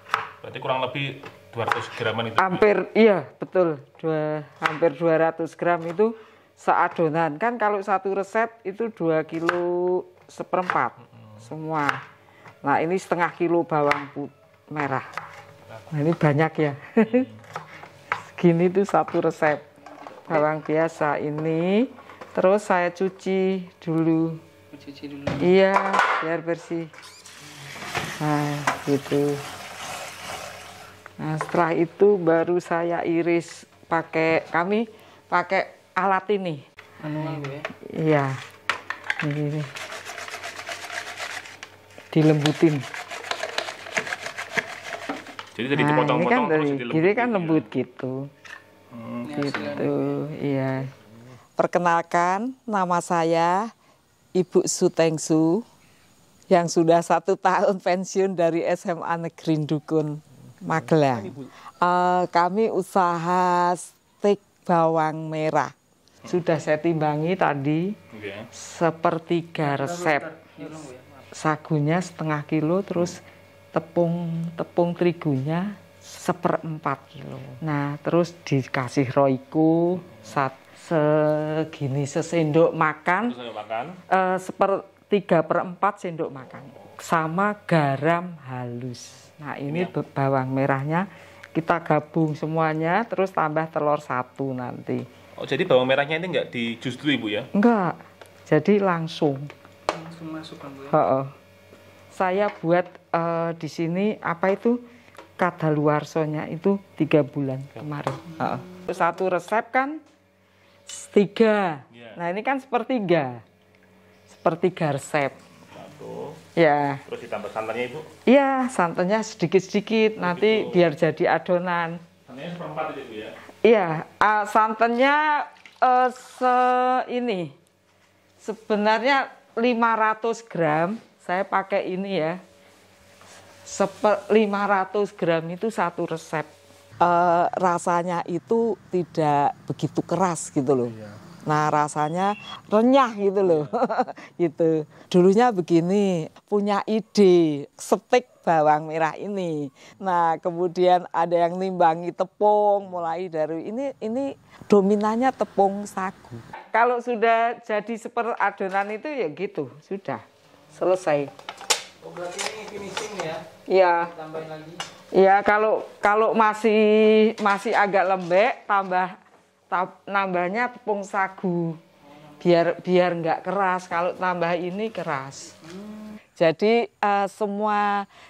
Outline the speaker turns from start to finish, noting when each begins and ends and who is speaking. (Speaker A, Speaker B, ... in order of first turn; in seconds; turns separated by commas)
Speaker A: 0.4-2.6, Speaker B: 2.4-12.0, Speaker B: 12.6-15.1, Speaker B: 15.9-17.3, Speaker B: 18.3-19.6, Speaker B: 20.3-24.4, Speaker C: 24.7-25.5, Speaker B: 25.4-26.9, Speaker B: 28.2-29.4, Speaker B: 31.2-36.6, Speaker C: 37.0-37.6, Speaker B: 37.9-38.4, Speaker B: 39.2-39.7, Speaker B: 42.1-42.8, Speaker A: 45.5-47.7, Speaker B: 45.7-48.3, Speaker A: 48.9-49.6, Speaker C: 49.2-49.9, Speaker B: 49.3-50.9, Speaker B: 51.6-53.7, Speaker B: 54.4-55.6, Speaker B: 56.5-65.7, Speaker A: 61.0-61.5, Speaker B: 66.2-68.0, Speaker A: 68.1-68.5, Speaker B: 68.5-70.3, Speaker C: 69.7-71.2, Speaker B: 71.3-73.2, Speaker B: 73.7-83.4, Speaker A: 83.2-84.0, Speaker B: 84.1-95.0, Speaker A: 89.7-89.9, Speaker A: 95.4-97.5, Speaker B: 97.5-99.5, Speaker C: 99.9-101.0, Speaker B: 100.9-101.3, Speaker B: 102.1-104.8, Speaker B: 105.4-110.0, Speaker B: 110.9-113.4, Speaker A: 111.9-112.2, Speaker B: 114.3-115.4, Speaker A: 115.7-116.4, Speaker B: 116.6-117.0, Speaker A: 117.1-118.1, Speaker B: 118.3-122.0, Speaker A: 120.2-120.9, Speaker A: 122.3-123.4, Speaker B: 123.6-127.5, Speaker B: 128.4-132.4, Speaker B: 133.7-136.5, Speaker B: 137.0-140.9, Speaker A: 140.9-141.2, Speaker B: 141.5-161.3, Speaker A: 143.4-143.8, Speaker C: 162.0-163.5, Speaker B: 163.7-164.2, Speaker C: 164.1-164.8, Speaker B: 165.1-169.2, Speaker B: 169.7-171.8, Speaker B: 172.4-175.6, Speaker B: 176.4-178.1